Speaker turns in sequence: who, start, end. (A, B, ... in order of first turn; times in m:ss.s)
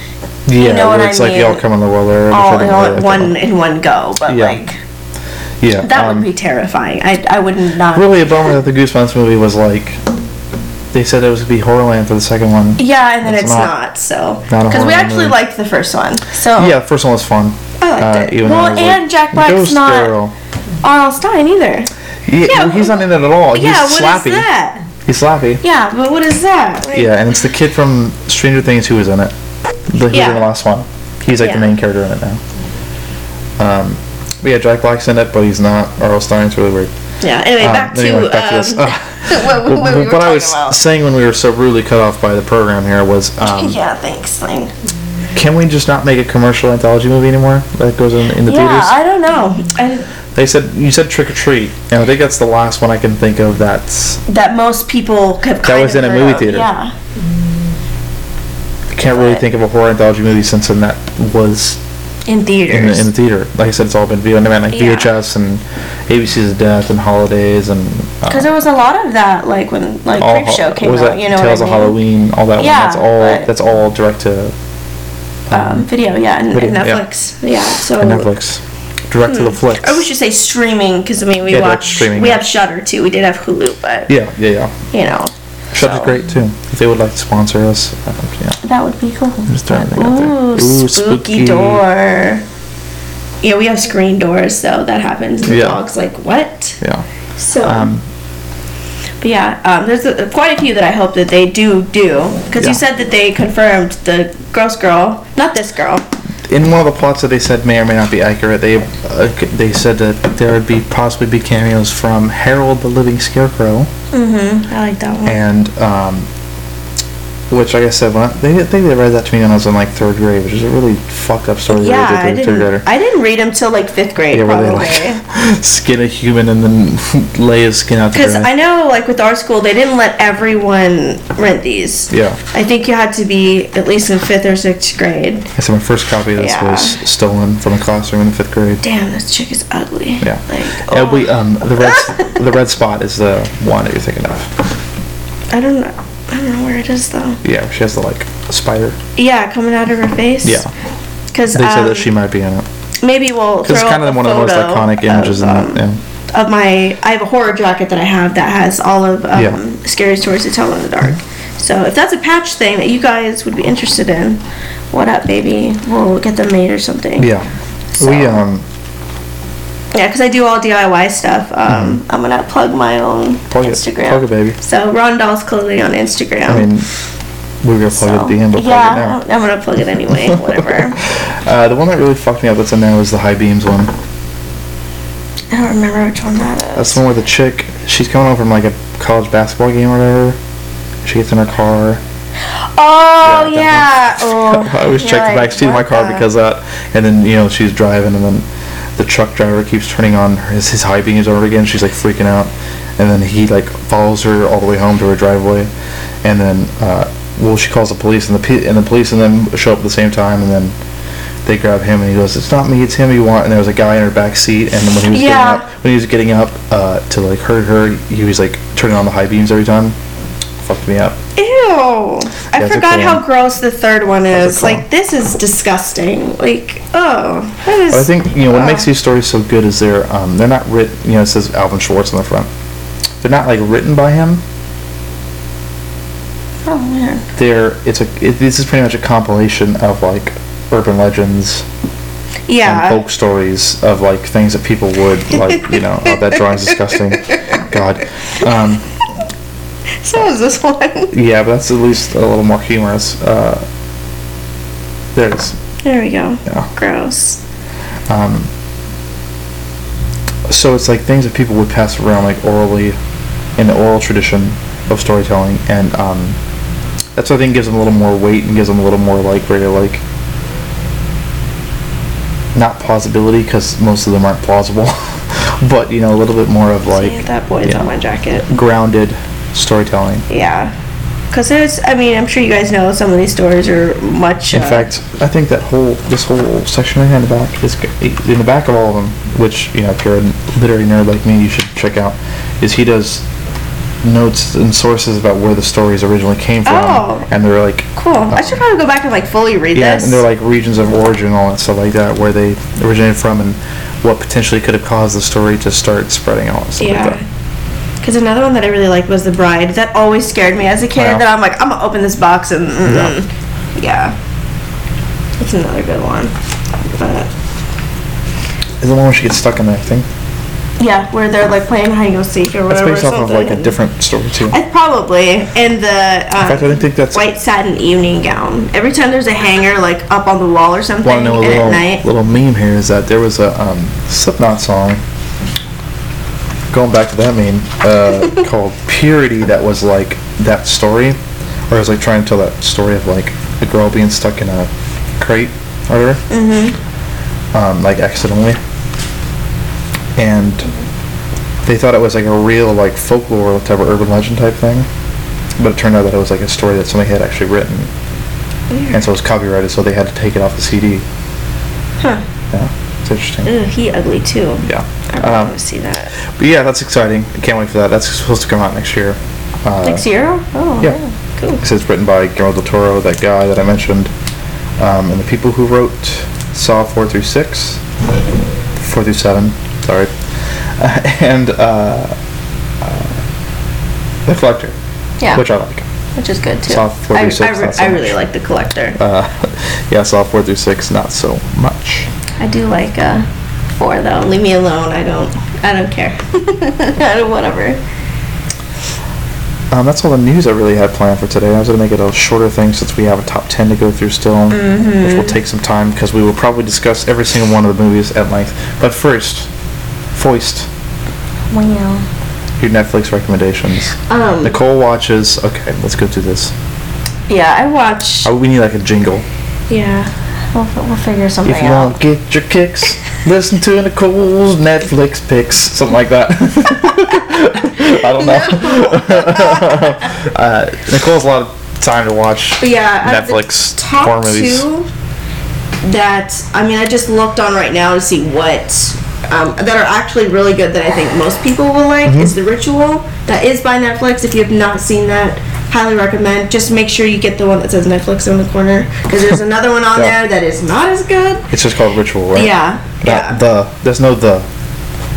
0:00.5-0:03.3 A
0:00.6-0:01.6 B
0:02.3-0:04.8 B
0:04.3-0:04.6 A
0:05.6-0:06.3 A
0:05.8-0:08.3 B
0:07.9-0:10.0 A
0:10.9-0:13.7 A
0:12.8-0:16.7 B
0:14.5-0:15.4 A
0:16.5-0:20.3 A
0:17.8-0:20.1 B
0:20.8-0:21.9 B
0:22.3-0:24.5 A
0:22.4-0:23.0 B
0:23.5-0:24.8 B
0:25.0-0:25.6 A
0:25.6-0:27.1 B
0:26.9-0:29.3 A
0:29.9-0:32.4 A
0:30.1-0:30.4 B
0:31.4-0:31.7 B
0:33.6-0:36.9 A
0:37.2-0:40.8 B
0:37.6-0:43.8 A
0:43.4-0:44.7 B
0:45.3-0:49.0 A
0:48.4-0:50.1 B
0:50.3-0:54.2 A
0:54.3-0:56.9 B
0:55.6-0:56.7 A
0:58.9-1:01.8 A
0:59.1-0:59.4 B
1:02.2-1:03.1 B
1:02.7-1:08.5 A
1:04.7-1:05.1 B
1:08.3-1:12.0 B
1:10.2-1:14.5 A
1:12.6-1:13.5 B
1:15.5-1:15.9 A
1:15.5-1:18.3 B
1:16.5-1:17.0 A
1:17.9-1:20.1 A
1:19.2-1:24.1 B
1:21.5-1:22.5 A
1:24.1-1:24.8 A
1:24.9-1:26.2 B
1:25.7-1:28.6 A
1:28.6-1:32.4 B
1:29.5-1:31.8 A
1:33.4-1:36.8 B
1:35.4-1:35.8 A
1:37.4-1:37.9 B
1:37.6-1:38.0 A
1:39.2-1:46.0 B
1:46.4-1:53.9 A
1:54.1-1:55.4 B
1:55.2-1:56.3 A
1:57.5-2:02.8 A
2:01.7-2:05.2 B
2:04.3-2:08.5 A
2:08.1-2:15.5 B
2:12.1-2:12.4 A
2:15.5-2:18.8 A
2:16.4-2:17.0 B
2:18.8-2:22.3 B
2:20.2-2:24.6 A
2:25.5-2:27.4 B
2:27.4-2:29.0 A
2:29.2-2:30.6 B
2:30.4-2:30.7 A
2:31.3-2:32.1 B
2:31.5-2:32.6 A
2:33.0-2:47.3 B
2:33.6-2:36.0 A
2:39.3-2:39.6 A
2:47.2-2:48.6 A
2:47.9-2:48.4 B
2:49.9-2:56.7 B
2:51.7-2:52.0 A
2:53.5-2:54.6 A
2:56.4-2:56.9 A
2:57.6-2:59.2 A
2:57.9-3:01.0 B
3:00.1-3:03.9 A
3:05.5-3:07.0 B
3:06.7-3:10.4 A
3:11.0-3:12.0 A
3:12.5-3:16.3 B
3:13.2-3:25.7 A
3:26.2-3:30.7 A
3:31.4-3:40.0 A
3:35.1-3:35.7 B
3:40.6-3:41.2 A
3:41.4-3:48.9 B
3:42.5-3:43.2 A
3:44.3-3:44.8 A
3:47.9-3:52.5 A
3:53.2-3:54.4 A
3:56.6-3:57.2 B
3:57.4-4:01.6 A
4:02.5-4:03.0 B
4:02.6-4:08.9 A
4:05.4-4:05.7 B
4:06.4-4:07.6 B
4:10.0-4:11.1 B
4:11.1-4:13.6 A
4:15.1-4:15.6 A
4:15.8-4:17.4 B
4:18.1-4:18.5 A
4:20.5-4:23.0 A
4:23.6-4:26.4 A
4:27.2-4:30.0 A
4:32.5-4:37.9 A
4:36.9-4:38.5 B
4:38.5-4:40.2 A
4:40.3-4:40.7 B
4:41.3-4:44.9 B
4:44.5-4:53.2 A
4:54.0-4:58.6 A
4:56.6-4:57.3 B
4:58.0-5:00.2 B
4:59.7-5:07.2 A
5:06.8-5:07.2 B
5:08.0-5:14.2 B
5:10.9-5:11.2 A
5:12.8-5:13.2 A
5:15.4-5:17.3 B
5:18.8-5:20.1 A
5:20.8-5:23.7 B
5:22.7-5:24.6 A
5:24.5-5:32.0 B
5:26.4-5:27.3 A
5:31.0-5:35.0 A
5:36.7-5:46.2 A
5:46.3-5:46.8 B
5:47.5-5:48.6 A
5:50.2-5:50.7 A
5:51.6-5:54.9 A
5:55.6-5:57.9 A
5:58.7-5:59.0 B
5:58.9-6:01.0 A
6:02.0-6:02.2 B
6:02.5-6:03.5 A
6:03.4-6:06.1 B
6:04.6-6:05.6 A
6:06.2-6:10.1 A
6:09.8-6:11.6 B
6:11.6-6:14.1 A
6:14.8-6:17.8 A
6:18.8-6:20.1 A
6:20.8-6:22.2 A
6:22.8-6:23.2 A
6:24.2-6:24.8 A
6:25.3-6:25.9 A
6:26.2-6:29.0 B
6:26.7-6:28.2 A
6:29.0-6:32.1 A
6:32.4-6:37.8 B
6:39.7-6:49.5 A
6:44.5-6:45.4 B
6:50.1-6:50.7 A
6:51.5-6:52.1 B
6:52.6-6:56.5 A
6:54.1-6:54.6 B
6:57.3-6:58.3 B
6:58.2-6:59.3 A
6:59.7-7:02.0 B
7:01.4-7:14.7 A
7:07.9-7:10.0 B
7:12.6-7:14.9 B
7:15.8-7:31.5 B
7:22.0-7:22.4 A
7:31.5-7:34.5 A
7:32.3-7:33.4 B